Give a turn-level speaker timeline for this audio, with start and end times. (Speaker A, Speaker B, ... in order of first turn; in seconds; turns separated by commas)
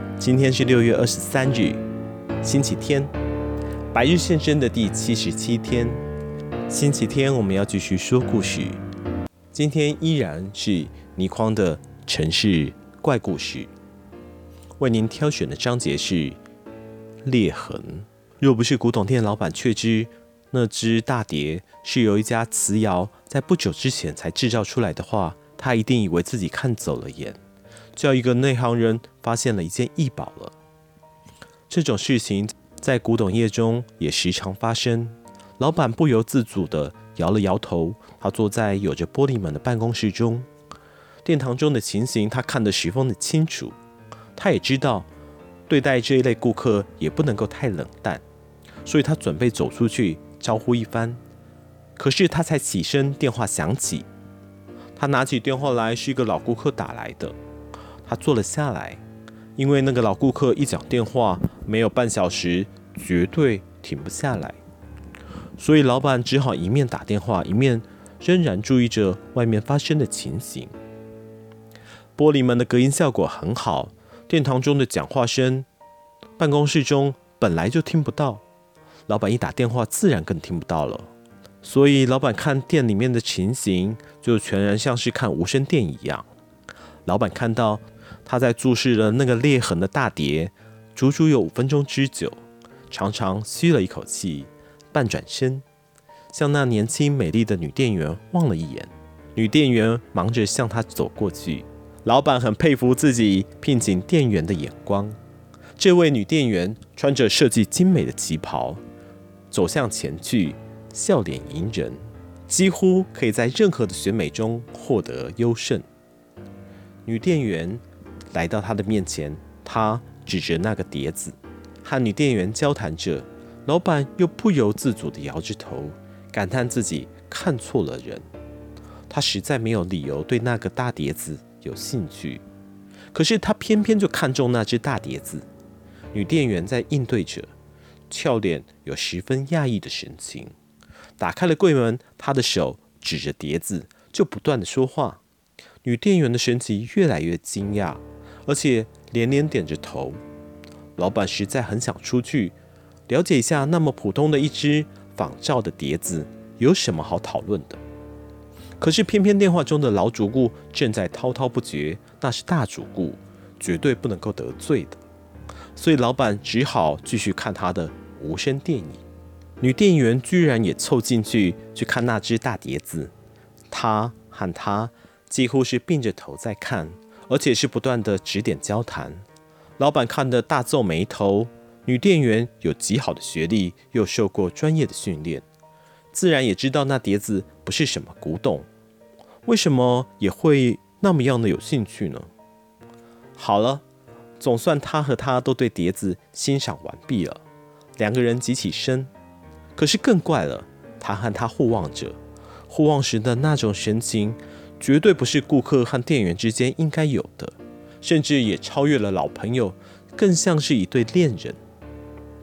Speaker A: 0.2-1.8, Speaker A: 2.4-3.1, Speaker A: 3.9-6.0, Speaker A: 6.7-8.8, Speaker A: 9.5-13.7, Speaker A: 14.8-16.4, Speaker A: 17.2-27.4, Speaker A: 27.9-30.6, Speaker A: 31.7-40.5, Speaker A: 41.2-43.8, Speaker A: 44.4-45.1, Speaker A: 45.7-48.2, Speaker A: 48.8-51.2, Speaker A: 52.0-54.1, Speaker A: 55.0-57.4, Speaker A: 58.0-59.0, Speaker A: 59.5-64.6, Speaker A: 65.6-70.7, Speaker A: 72.2-75.7, Speaker A: 76.4-78.4, Speaker A: 79.1-81.1, Speaker A: 81.6-86.2, Speaker A: 87.0-95.6, Speaker A: 96.3-105.2, Speaker A: 105.8-108.8, Speaker A: 109.5-115.8, Speaker A: 117.1-128.3, Speaker A: 129.1-132.4, Speaker A: 133.1-135.4, Speaker A: 136.1-137.5, Speaker A: 138.1-140.5, Speaker A: 141.2-145.2, Speaker A: 145.8-150.2, Speaker A: 151.0-152.6, Speaker A: 153.1-157.8, Speaker A: 158.8-165.0, Speaker A: 165.8-169.0, Speaker A: 169.6-173.1, Speaker A: 173.7-179.2, Speaker A: 179.8-185.4, Speaker A: 186.1-188.7, Speaker A: 189.4-192.3, Speaker A: 193.4-193.8, Speaker A: 194.4-197.4, Speaker A: 198.0-199.1, Speaker A: 199.8-202.2, Speaker A: 202.7-211.6